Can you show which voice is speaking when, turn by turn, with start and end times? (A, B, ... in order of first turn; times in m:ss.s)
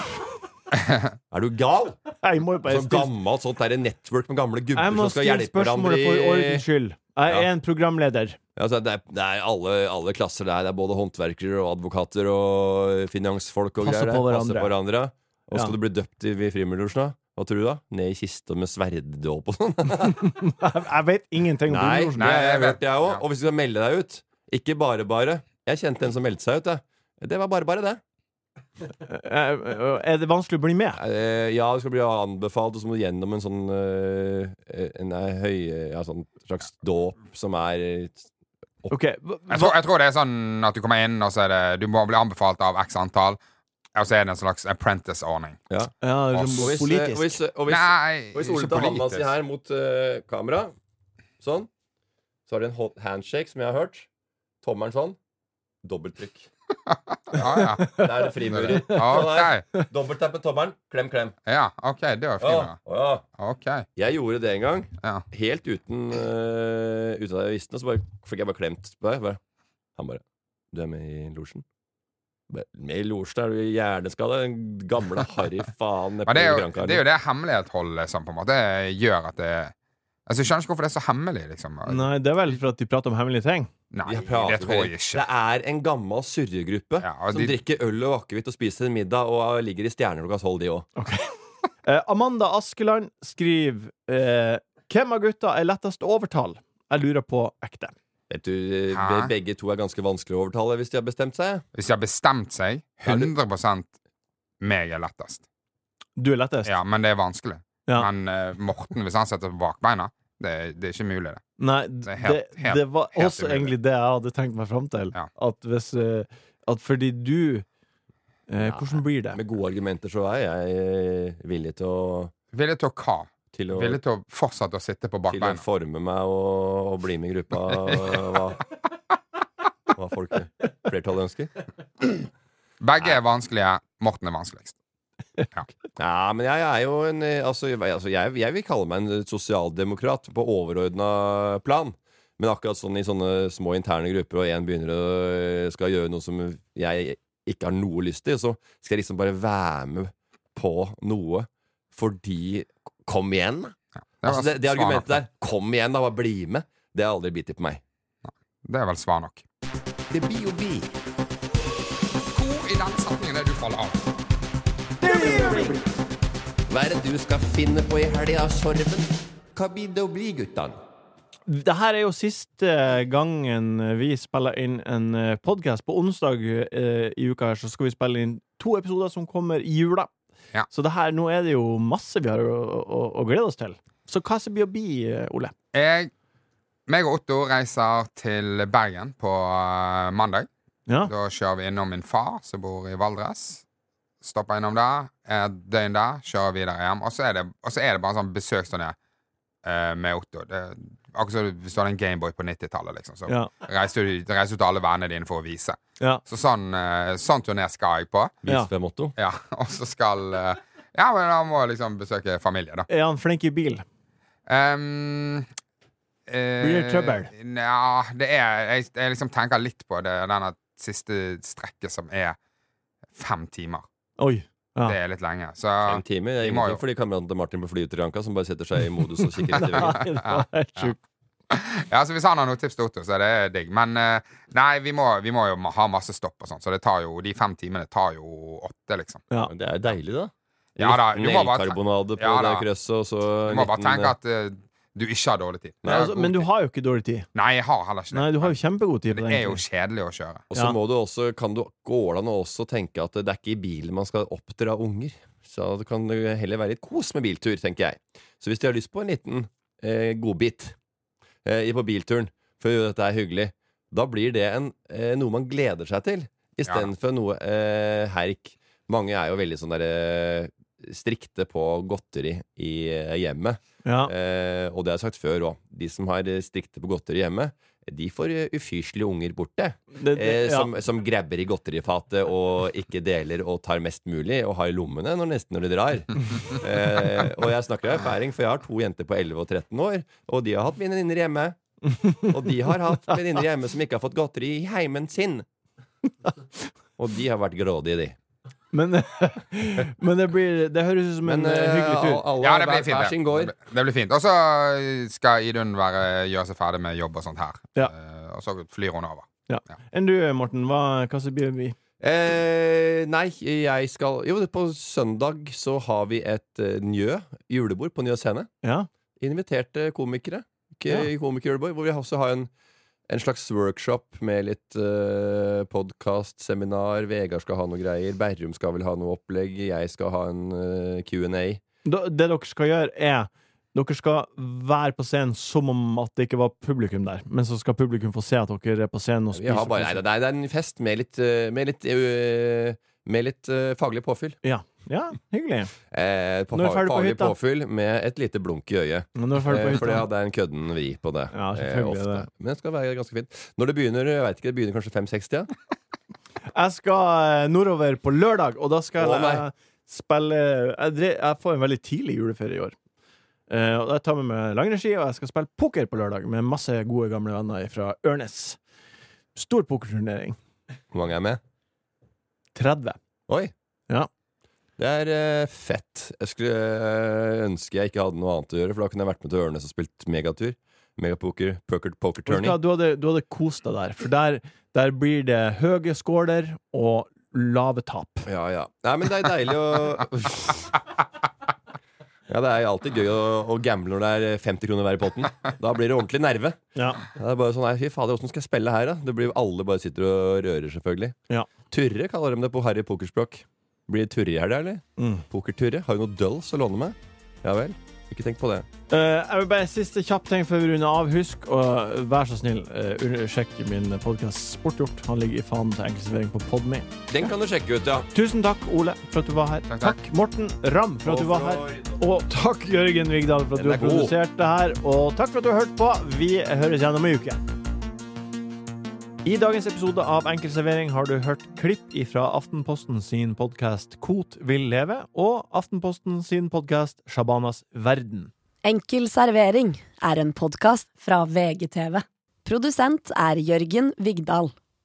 0:01.3-0:02.0 A
0:02.2-0:03.1 B
0:02.7-0:06.6 A
0:04.8-0:08.4 B
0:08.6-0:20.3 A
0:13.8-0:14.7 B
0:20.2-0:22.3 B
0:21.7-0:28.0 A
0:22.2-0:23.2 C
0:29.1-0:31.0 B
0:31.0-0:38.2 A
0:38.9-0:39.8 B
0:39.5-0:43.4 C
0:44.0-0:45.6 C
0:45.7-0:50.7 A
0:46.0-0:47.4 B
0:47.7-0:49.3 C
0:51.4-0:51.7 A
0:52.5-0:54.1 A
0:54.6-0:55.2 A
0:55.8-0:56.5 A
0:56.9-0:59.7 C
0:57.9-1:01.4 A
1:01.5-1:02.8 C
1:02.4-1:03.2 A
1:03.4-1:03.9 C
1:04.0-1:09.4 A
1:10.0-1:11.6 A
1:12.5-1:17.0 A
1:16.3-1:19.7 C
1:20.3-1:22.5 C
1:21.8-1:23.7 B
1:23.9-1:25.2 C
1:24.0-1:30.9 A
1:27.0-1:27.6 C
1:31.0-1:37.9 B
1:38.3-1:41.6 A
1:39.0-1:39.3 C
1:41.8-1:43.9 C
1:43.0-1:43.3 A
1:44.6-1:45.4 C
1:46.2-1:46.7 B
1:46.6-1:51.4 C
1:51.6-1:57.7 B
1:52.1-1:53.7 C
1:58.5-1:59.4 B
1:58.6-2:02.3 A
2:02.5-2:05.6 C
2:03.5-2:04.0 A
2:05.3-2:08.6 A
2:10.0-2:11.6 A
2:12.8-2:14.8 C
2:16.0-2:37.8 A
2:34.2-2:35.2 C
2:38.6-2:39.4 C
2:40.1-2:40.9 D
2:42.3-2:44.1 C
2:45.0-2:45.8 B
2:46.7-2:48.8 A
2:46.9-2:49.0 D
2:49.6-2:50.7 D
2:51.5-3:00.1 B
3:00.7-3:05.5 B
3:05.7-3:06.1 C
3:06.9-3:10.5 C
3:11.0-3:13.6 C
3:14.2-3:19.0 C
3:19.6-3:28.4 C
3:28.4-3:29.1 A
3:29.2-3:32.9 C
3:32.9-3:33.8 B
3:34.5-3:35.5 C
3:36.3-3:42.4 C
3:36.6-3:37.3 B
3:43.1-3:43.9 C
3:44.2-3:45.0 B
3:44.9-3:46.8 C
3:45.8-3:50.0 A
3:49.5-3:51.0 B
3:49.7-3:50.9 C
3:51.5-3:59.2 C
3:59.4-4:04.2 A
4:00.8-4:02.7 C
4:03.5-4:06.5 C
4:05.8-4:06.1 A
4:05.9-4:07.3 B
4:07.3-4:08.6 C
4:08.1-4:09.6 B
4:09.1-4:10.4 C
4:10.5-4:20.8 A
4:21.4-4:51.6 A
4:33.8-4:34.1 B
4:40.0-4:40.7 B
4:52.0-4:52.3 B
4:52.2-4:55.4 A
4:57.0-4:58.2 A
4:58.7-5:02.2 B
5:01.2-5:03.5 A
5:02.4-5:09.3 C
5:09.5-5:11.8 B
5:12.0-5:18.5 A
5:18.6-5:18.9 B
5:19.2-5:22.5 A
5:23.1-5:31.6 A
5:31.8-5:40.0 B
5:39.3-5:44.4 A
5:44.4-5:45.7 B
5:45.9-5:55.5 A
5:46.5-5:47.4 B
5:49.2-5:50.1 B
5:51.3-5:52.3 B
5:56.5-6:02.8 B
5:59.0-5:59.5 A
6:03.5-6:08.6 B
6:09.4-6:10.4 B
6:10.9-6:11.4 A
6:12.6-6:13.0 B
6:14.8-6:22.6 A
6:22.3-6:28.3 B
6:28.3-6:30.5 A
6:32.3-6:36.6 A
6:36.8-6:37.0 B
6:37.1-6:41.2 A
6:41.7-6:48.7 A
6:45.0-6:45.2 B
6:48.9-6:56.9 B
6:57.1-6:58.1 A
6:58.1-7:07.4 B
6:59.7-7:00.0 C
7:01.1-7:02.0 A
7:03.6-7:04.1 A
7:09.2-7:18.3 B
7:18.6-7:24.5 E